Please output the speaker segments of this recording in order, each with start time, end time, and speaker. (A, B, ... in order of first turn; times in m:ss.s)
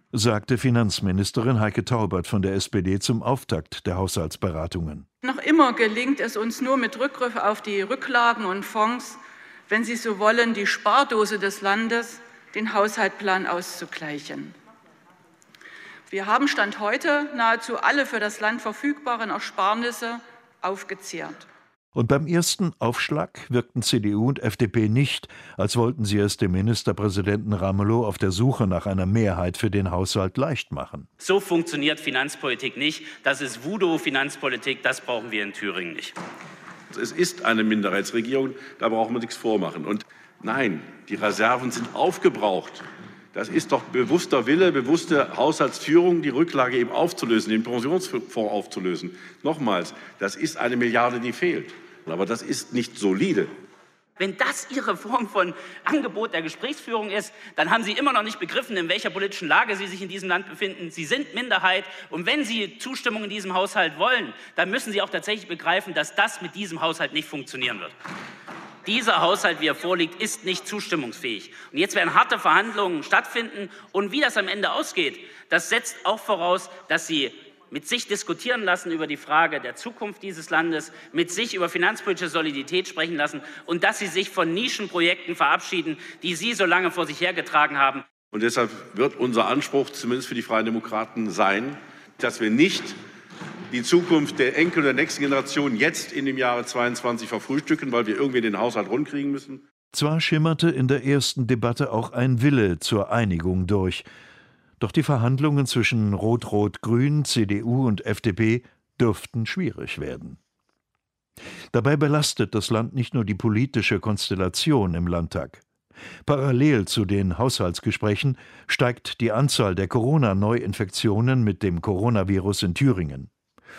0:00.1-0:05.0 A
0:05.2-0:14.5 B
0:16.1-0:21.5 B
0:21.9-0:31.1 A
0:32.6-0:33.0 C
0:36.9-0:42.8 D
0:43.3-0:53.5 D
0:54.5-0:57.3 C
0:57.8-1:03.9 C
1:04.8-1:06.4 C
1:09.0-1:17.2 C
1:18.3-1:25.9 C
1:26.6-1:27.3 C
1:28.3-1:33.0 D
1:33.7-1:39.6 D
1:39.9-1:44.0 A
1:44.8-1:50.4 A
1:51.7-1:55.6 A
1:56.2-2:03.3 A